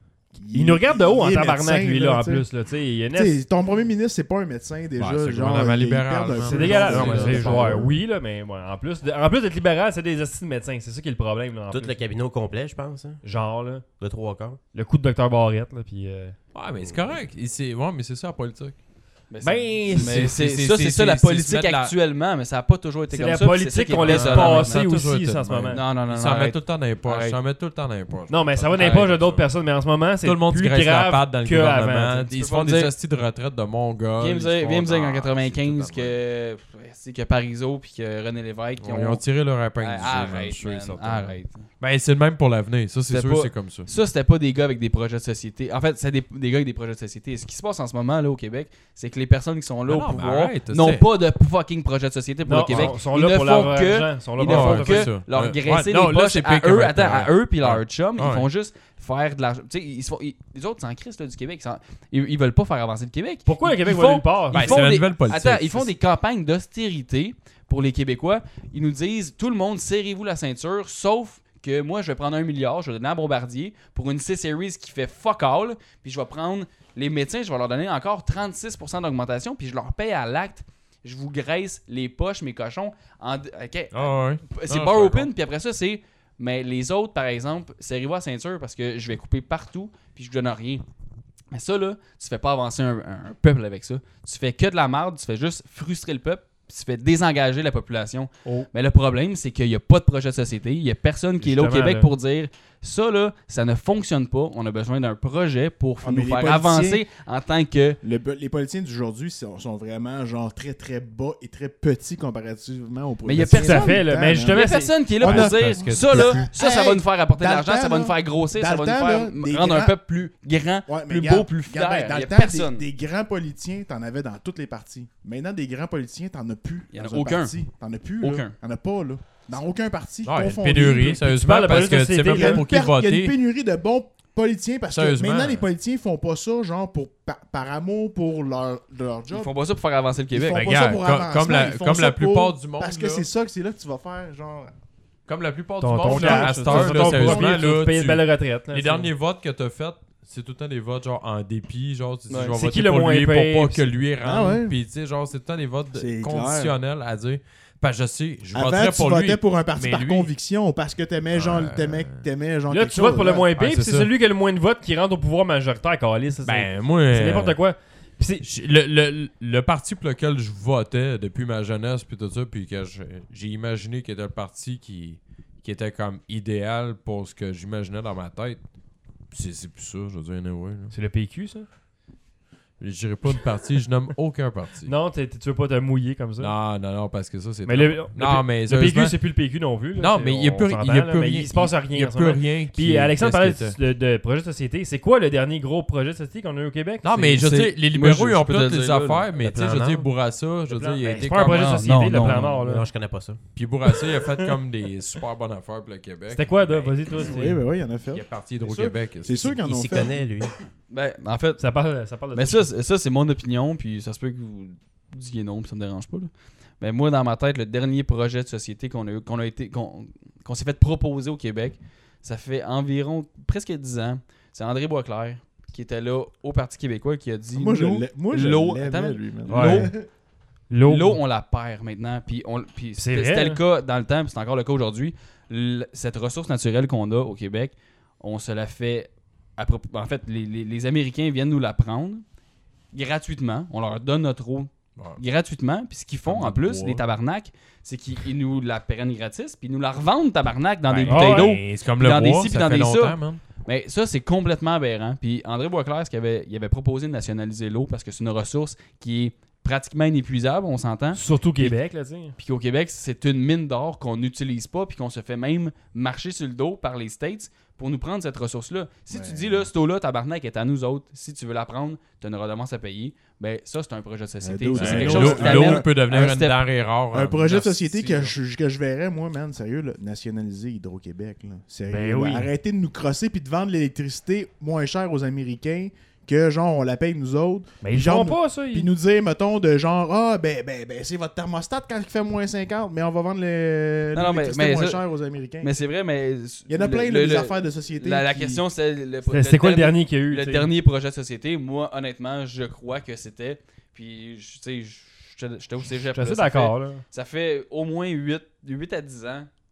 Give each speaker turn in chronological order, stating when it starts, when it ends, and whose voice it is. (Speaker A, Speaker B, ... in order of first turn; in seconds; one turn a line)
Speaker A: 0.3-2.5
Speaker B: 0.5-3.4
Speaker A: 3.1-7.9
Speaker C: 5.0-7.9
Speaker B: 6.5-12.0
Speaker D: 11.7-13.2
Speaker B: 13.2-13.8
Speaker D: 14.0-14.6
Speaker B: 14.7-16.4
Speaker C: 16.5-18.8
Speaker D: 16.8-17.1
Speaker E: 19.3-24.9
Speaker B: 19.4-20.3
Speaker C: 19.9-21.9
Speaker B: 23.1-25.8
Speaker C: 24.0-29.5
Speaker E: 25.7-27.4
Speaker B: 28.3-32.3
Speaker E: 28.8-29.1
Speaker C: 30.2-36.2
Speaker E: 32.3-32.9
Speaker E: 34.2-39.2
Speaker C: 38.8-43.9
Speaker E: 39.8-41.6
Speaker E: 43.1-90.8
Speaker C: 49.9-51.1
Speaker B: 52.5-55.1
Speaker C: 52.7-53.0
Speaker C: 54.4-58.5
Speaker B: 63.5-64.8
Speaker C: 64.5-65.9
Speaker C: 83.9-85.3
Speaker E: 91.5-108.0
Speaker B: 101.4-102.1
Speaker A: 106.0-107.0
Speaker A: 108.0-120.0
Speaker E: 113.2-122.8
Speaker B: 113.5-115.0
Speaker C: 115.2-116.5
Speaker A: 120.9-131.2
Speaker E: 126.9-127.6
Speaker E: 128.2-128.5
Speaker C: 130.2-133.3
Speaker B: 131.2-132.6
Speaker A: 132.2-139.5
Speaker C: 134.9-135.7
Speaker E: 139.3-140.7
Speaker A: 140.3-144.7
Speaker C: 140.5-143.3
Speaker C: 145.3-160.3
Speaker B: 145.8-149.1
Speaker A: 146.1-147.5
Speaker E: 146.4-147.1
Speaker E: 152.3-152.6
Speaker B: 152.6-153.9
Speaker A: 154.2-154.7
Speaker A: 155.9-156.7
Speaker A: 158.5-163.5
Speaker C: 161.3-162.2
Speaker B: 162.7-168.4
Speaker C: 163.6-164.1
Speaker C: 166.4-167.6
Speaker C: 168.4-178.6
Speaker C: 179.3-180.9
Speaker B: 180.9-181.7
Speaker C: 182.8-184.9
Speaker B: 184.9-186.5
Speaker C: 186.4-189.2
Speaker B: 187.7-197.1
Speaker C: 190.0-193.8
Speaker C: 197.0-201.9
Speaker E: 197.2-199.3
Speaker D: 199.4-200.1
Speaker B: 200.7-202.9
Speaker E: 201.3-202.6
Speaker D: 202.2-203.4
Speaker C: 203.6-207.0
Speaker B: 206.3-207.6
Speaker A: 207.2-210.2
Speaker C: 208.1-209.6
Speaker D: 209.6-210.5
Speaker E: 210.9-211.6
Speaker B: 211.6-212.7
Speaker E: 212.3-229.9
Speaker A: 227.5-230.1
Speaker B: 229.5-229.9
Speaker B: 230.7-231.2
Speaker E: 230.8-242.2
Speaker B: 233.0-233.6
Speaker E: 242.9-261.8
Speaker C: 246.3-247.0
Speaker C: 250.9-253.4
Speaker B: 251.1-251.6
Speaker B: 261.1-262.4
Speaker E: 262.4-276.6
Speaker A: 269.1-269.7
Speaker A: 274.4-275.9
Speaker C: 274.8-278.3
Speaker A: 277.1-295.7
Speaker B: 281.9-282.5
Speaker B: 287.8-288.9
Speaker E: 294.1-295.0
Speaker E: 295.6-309.5
Speaker A: 296.7-298.6
Speaker B: 299.3-300.7
Speaker B: 306.1-307.0